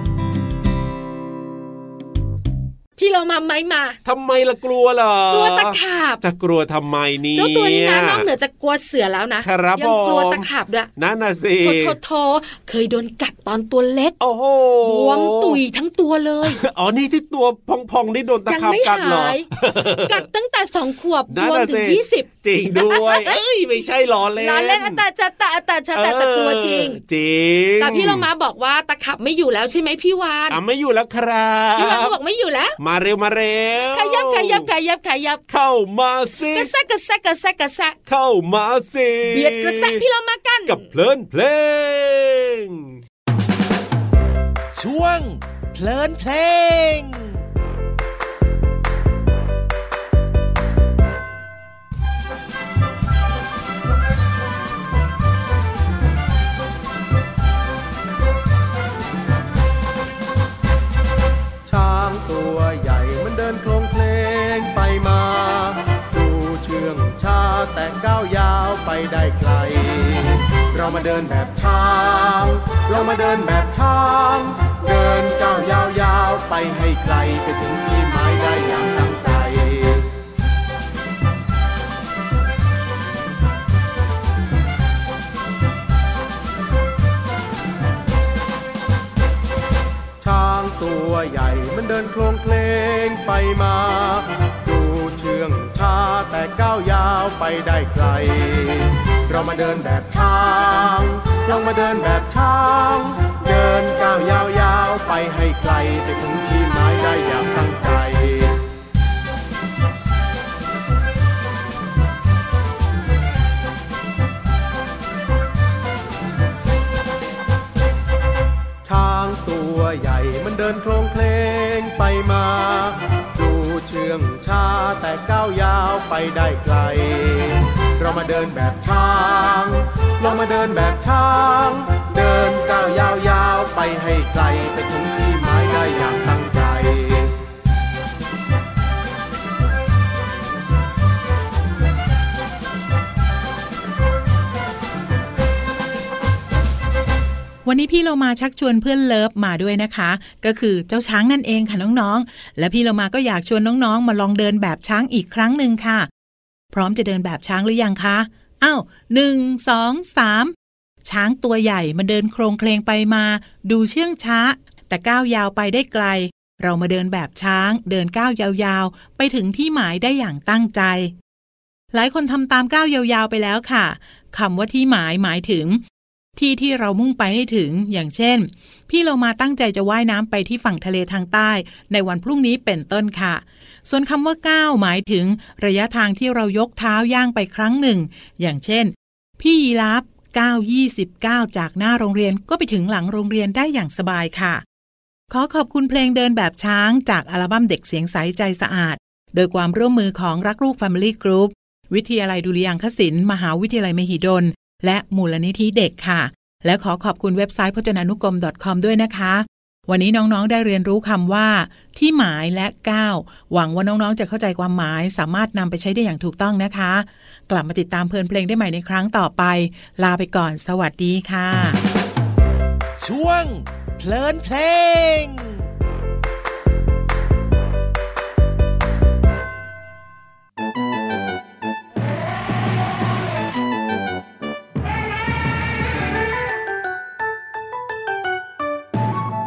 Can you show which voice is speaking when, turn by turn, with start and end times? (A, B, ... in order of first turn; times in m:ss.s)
0:03.0-0:04.0 A
0:04.0-0:08.3 B
0:05.3-0:06.2 A
0:07.3-0:10.9 A
0:09.4-0:12.0 B
0:11.6-0:14.2 A
0:14.2-0:15.6 B
0:14.8-0:16.6 A
0:16.4-0:20.2 B
0:18.5-0:19.5 A
0:20.0-0:23.4 A
0:21.3-0:25.0 B
0:24.4-0:27.0 A
0:25.9-0:28.3 B
0:27.8-0:30.6 A
0:30.5-0:32.2 B
0:31.8-0:32.8 A
0:32.8-0:34.7 B
0:33.9-0:35.4 A
0:35.5-0:36.7 B
0:36.5-0:38.0 A
0:38.1-0:40.0 B
0:39.2-0:40.9 A
0:40.6-0:43.0 B
0:44.7-0:47.4 C
1:01.6-1:20.1 D
1:30.2-1:48.6 D
1:58.8-2:17.4 D
2:27.6-2:36.1 E
2:36.7-2:51.1 E
2:51.9-2:55.8 E
2:56.4-3:14.6 E
3:15.3-3:41.8 E
3:43.0-3:45.7 C